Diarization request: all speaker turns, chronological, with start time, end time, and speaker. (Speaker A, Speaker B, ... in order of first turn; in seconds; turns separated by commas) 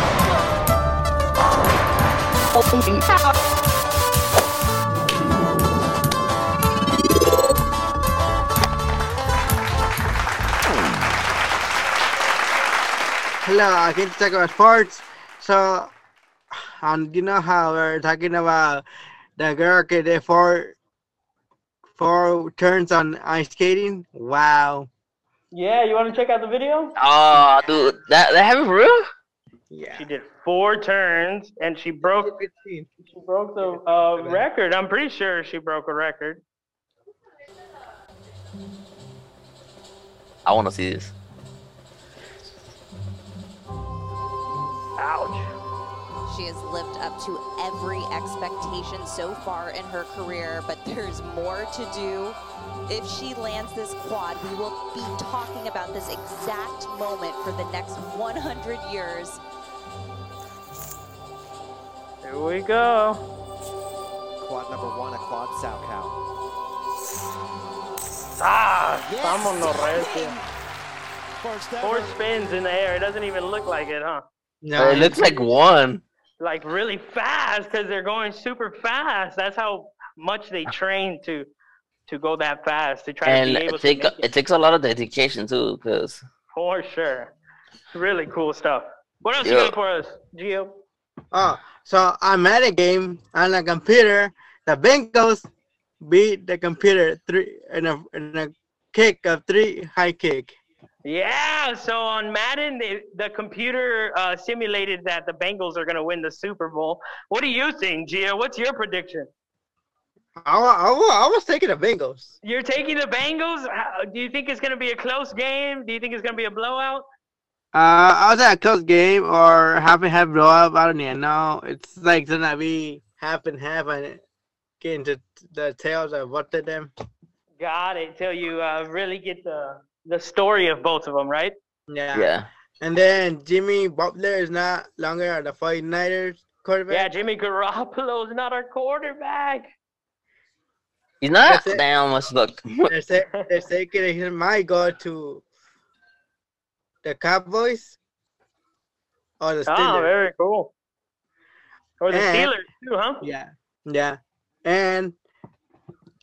Speaker A: 13.4-15.9, Speaker A: 16.5-18.8, Speaker A: 19.4-20.7, Speaker A: 22.0-24.9, Speaker B: 25.5-26.9, Speaker C: 27.0-29.0, Speaker A: 29.7-30.1, Speaker B: 29.9-32.3, Speaker A: 32.0-32.9, Speaker B: 33.0-36.4, Speaker A: 33.6-34.4, Speaker C: 40.5-41.1, Speaker B: 45.0-45.5, Speaker D: 46.3-59.4, Speaker B: 62.2-63.2, Speaker E: 64.4-66.2, Speaker B: 68.4-70.4, Speaker E: 69.1-70.3, Speaker E: 71.4-72.1, Speaker B: 71.8-74.2, Speaker A: 74.6-75.5, Speaker C: 74.8-76.0, Speaker B: 76.4-81.5, Speaker B: 82.1-84.3, Speaker C: 83.2-86.2, Speaker B: 86.5-87.3, Speaker B: 87.9-90.8, Speaker C: 89.4-89.7, Speaker A: 91.3-95.5, Speaker A: 96.0-100.5, Speaker B: 101.0-109.3, Speaker A: 110.4-112.3, Speaker B: 112.4-117.0, Speaker A: 117.7-124.2, Speaker A: 124.8-126.9, Speaker B: 127.6-131.6, Speaker A: 131.9-137.1, Speaker C: 132.1-132.5, Speaker B: 136.9-139.7, Speaker C: 141.2-142.9, Speaker A: 141.4-141.8, Speaker A: 142.9-145.4, Speaker A: 147.0-147.9, Speaker A: 149.4-150.1, Speaker B: 149.7-150.7, Speaker B: 152.0-153.2, Speaker A: 152.1-152.5, Speaker A: 153.2-155.2